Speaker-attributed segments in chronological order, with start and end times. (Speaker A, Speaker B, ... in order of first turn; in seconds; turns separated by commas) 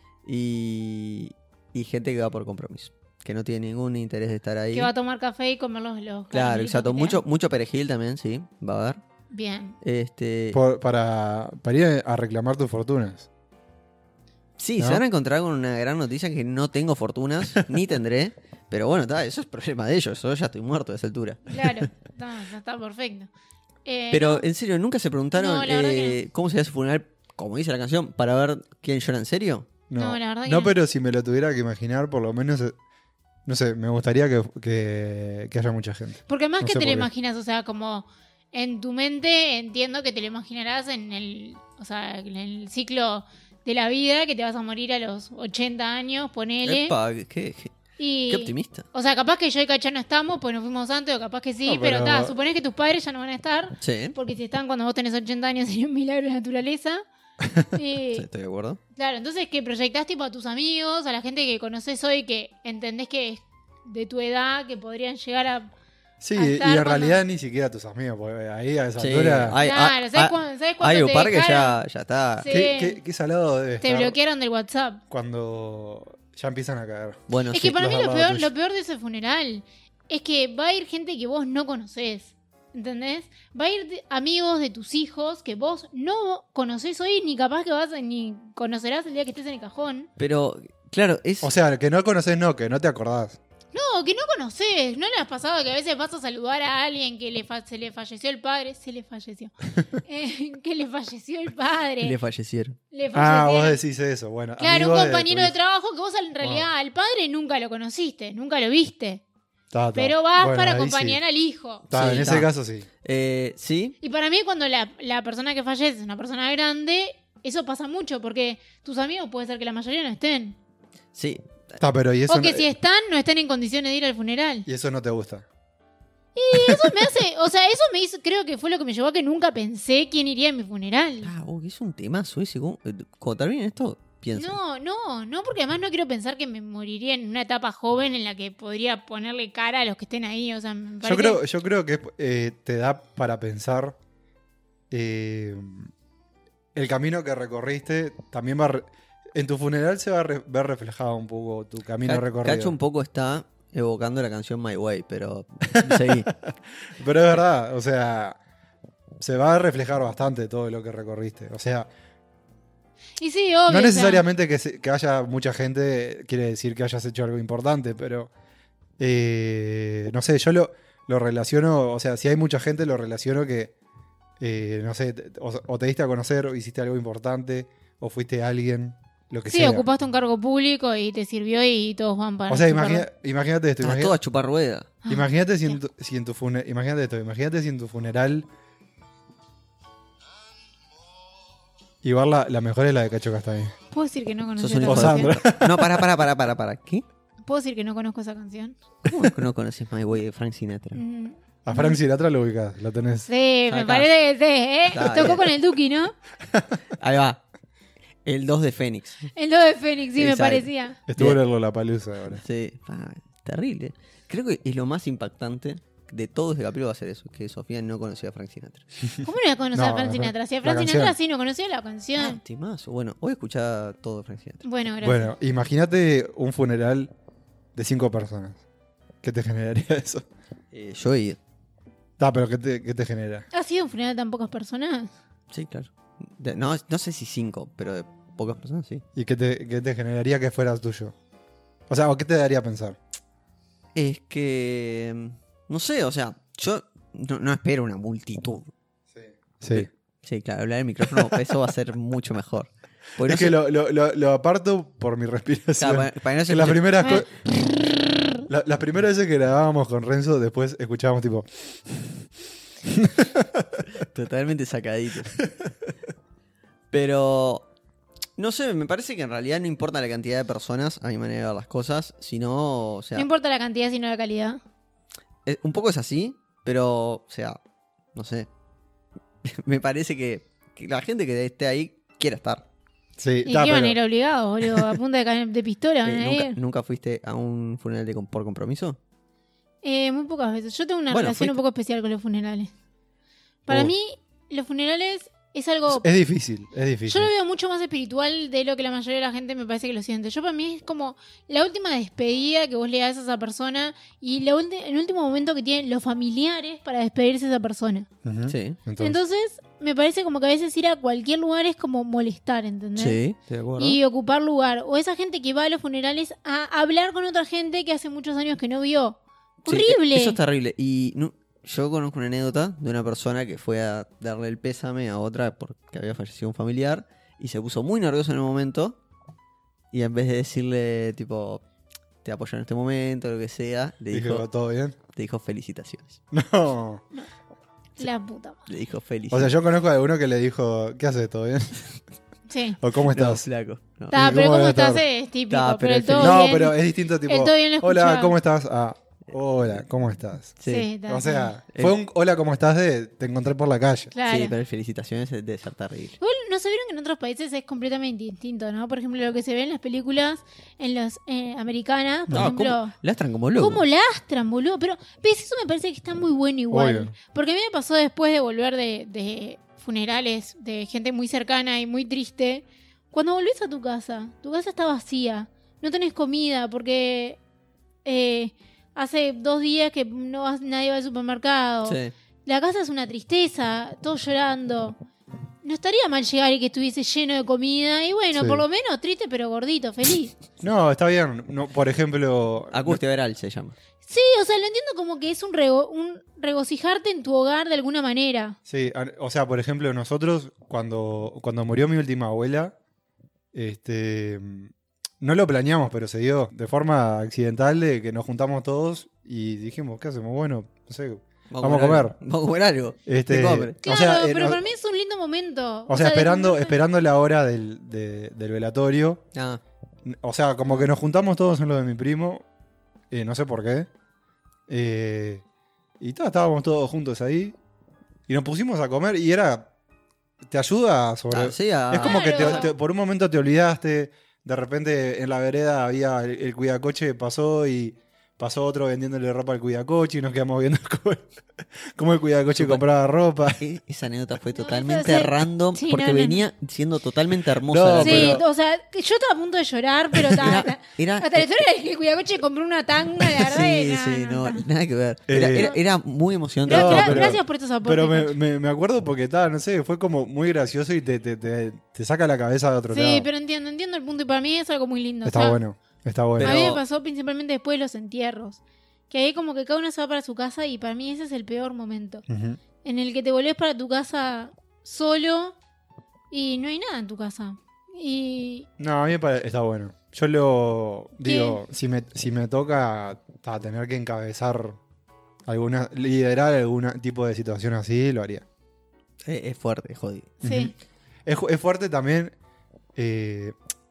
Speaker A: 0.2-4.9, Speaker B: 4.7-7.2, Speaker A: 6.3-9.0, Speaker B: 9.3-9.8, Speaker A: 9.8-10.6, Speaker C: 10.5-13.3, Speaker A: 14.6-21.9, Speaker B: 21.5-23.3, Speaker B: 23.9-24.5, Speaker A: 24.1-29.7, Speaker B: 25.4-26.2, Speaker C: 29.9-32.8, Speaker B: 30.0-30.8, Speaker C: 33.5-37.1, Speaker B: 36.3-47.0, Speaker A: 46.6-47.8, Speaker B: 48.0-57.0, Speaker A: 48.3-48.9, Speaker C: 51.7-52.4, Speaker A: 53.8-54.2, Speaker B: 57.7-58.3, Speaker A: 58.1-58.8, Speaker B: 59.0-65.7, Speaker C: 66.2-69.6, Speaker B: 66.3-67.2, Speaker A: 69.0-72.5, Speaker B: 69.6-71.8, Speaker B: 72.4-73.0, Speaker C: 72.5-74.2, Speaker B: 73.8-75.0, Speaker C: 75.1-78.5, Speaker A: 77.3-77.7, Speaker B: 77.5-90.1, Speaker A: 90.2-91.5, Speaker C: 91.4-93.4, Speaker B: 93.7-99.5, Speaker B: 100.0-102.2, Speaker A: 102.0-102.8, Speaker B: 102.9-103.8, Speaker C: 103.1-105.5, Speaker B: 104.6-109.2, Speaker C: 106.4-106.7, Speaker C: 109.7-111.2, Speaker B: 110.0-111.9, Speaker C: 111.9-112.9, Speaker A: 111.9-112.5, Speaker A: 113.0-114.0, Speaker B: 114.0-120.6, Speaker A: 121.1-121.8, Speaker C: 121.8-122.7, Speaker B: 122.3-124.7, Speaker C: 124.7-125.5, Speaker B: 126.4-131.3, Speaker A: 131.2-134.6, Speaker B: 134.3-141.4, Speaker C: 141.0-144.0, Speaker C: 144.9-145.9, Speaker C: 146.8-152.8, Speaker A: 152.1-156.3, Speaker C: 155.7-158.4, Speaker C: 159.2-161.9, Speaker B: 163.2-164.2, Speaker C: 163.7-168.3, Speaker C: 169.0-173.7, Speaker C: 174.4-179.9, Speaker B: 179.5-183.1, Speaker C: 182.5-184.2, Speaker A: 183.8-184.9, Speaker B: 185.0-185.8, Speaker C: 185.1-188.5, Speaker C: 192.0-193.8, Speaker B: 193.9-195.4, Speaker A: 194.6-197.0, Speaker C: 194.9-196.1, Speaker B: 197.5-198.8, Speaker A: 199.1-201.0, Speaker B: 200.9-202.0, Speaker C: 201.7-203.3, Speaker B: 203.3-206.1, Speaker A: 203.7-204.1, Speaker A: 204.9-205.5, Speaker A: 207.0-207.4, Speaker A: 208.2-209.2, Speaker B: 209.3-211.0, Speaker A: 210.2-211.4, Speaker C: 211.1-212.4, Speaker A: 212.3-218.9, Speaker B: 219.2-222.4, Speaker C: 219.7-221.2, Speaker A: 222.2-224.6, Speaker B: 224.6-225.3, Speaker C: 225.0-227.1, Speaker C: 227.8-228.6, Speaker C: 229.2-230.2, Speaker A: 230.7-231.4, Speaker C: 232.2-233.4, Speaker B: 233.5-235.1, Speaker A: 235.5-239.0, Speaker C: 239.2-241.1, Speaker C: 241.9-243.0, Speaker A: 243.9-248.7, Speaker C: 249.1-249.9, Speaker A: 249.7-253.5, Speaker C: 251.1-251.4, Speaker C: 253.2-257.4, Speaker A: 255.8-257.2, Speaker B: 257.0-258.5, Speaker C: 258.5-262.3, Speaker C: 262.9-263.9, Speaker A: 264.0-265.4, Speaker C: 265.4-265.7, Speaker A: 266.9-267.7, Speaker A: 268.4-273.3, Speaker B: 273.2-274.6, Speaker A: 275.5-277.6, Speaker A: 278.1-278.5, Speaker A: 279.4-282.6, Speaker C: 283.2-284.0, Speaker B: 283.4-286.6, Speaker A: 286.1-289.0, Speaker B: 289.8-292.7, Speaker A: 291.1-291.6, Speaker B: 293.7-296.1, Speaker C: 295.9-297.3, Speaker B: 297.1-308.1, Speaker C: 308.2-309.2, Speaker A: 308.5-308.8, Speaker B: 309.0-313.2, Speaker A: 313.0-314.0, Speaker B: 313.8-320.4, Speaker A: 319.7-329.0, Speaker A: 329.9-331.6, Speaker A: 332.2-334.5, Speaker C: 334.1-335.0, Speaker A: 335.1-336.2, Speaker C: 336.3-337.0, Speaker B: 338.0-338.6, Speaker A: 338.7-339.5, Speaker C: 339.3-342.0, Speaker B: 342.5-342.8, Speaker C: 342.8-343.5, Speaker A: 343.1-344.2, Speaker C: 344.1-345.1, Speaker B: 344.1-348.4, Speaker A: 345.5-346.4, Speaker C: 346.2-354.1, Speaker A: 350.6-350.9, Speaker B: 350.7-351.5, Speaker B: 354.1-354.5, Speaker A: 354.3-356.2, Speaker B: 356.2-362.9, Speaker A: 362.3-363.8, Speaker B: 363.6-377.4, Speaker C: 366.7-367.1, Speaker B: 378.1-385.0, Speaker A: 381.9-382.1, Speaker B: 385.6-390.4, Speaker C: 388.4-388.6, Speaker C: 390.6-393.0, Speaker A: 392.7-393.8, Speaker B: 394.1-398.6, Speaker C: 398.7-402.8, Speaker C: 403.5-412.2, Speaker A: 411.5-413.8, Speaker C: 413.1-414.6, Speaker B: 413.8-416.7, Speaker C: 415.9-419.2, Speaker A: 419.3-419.6, Speaker C: 420.1-422.4, Speaker C: 423.1-423.9, Speaker C: 424.7-425.4, Speaker C: 426.0-427.6, Speaker C: 428.3-429.7, Speaker C: 430.5-441.2, Speaker A: 431.3-432.7, Speaker B: 432.0-432.7, Speaker C: 441.9-443.6, Speaker A: 442.6-442.8, Speaker A: 443.6-448.4, Speaker B: 444.5-446.4, Speaker C: 447.6-448.4, Speaker B: 448.0-454.6, Speaker A: 450.4-451.5, Speaker A: 453.3-457.4, Speaker C: 455.3-455.7, Speaker B: 455.4-455.8, Speaker B: 456.7-458.4, Speaker C: 456.7-463.3, Speaker B: 462.9-465.6, Speaker C: 465.2-466.6, Speaker A: 466.4-466.8, Speaker B: 466.4-472.2, Speaker C: 472.3-472.6, Speaker B: 472.8-475.6, Speaker B: 476.3-478.7, Speaker C: 478.8-484.8, Speaker B: 481.2-481.6, Speaker C: 485.5-488.4, Speaker A: 489.2-490.3, Speaker C: 490.4-490.7, Speaker B: 490.4-490.7, Speaker C: 491.3-492.3, Speaker C: 493.0-493.6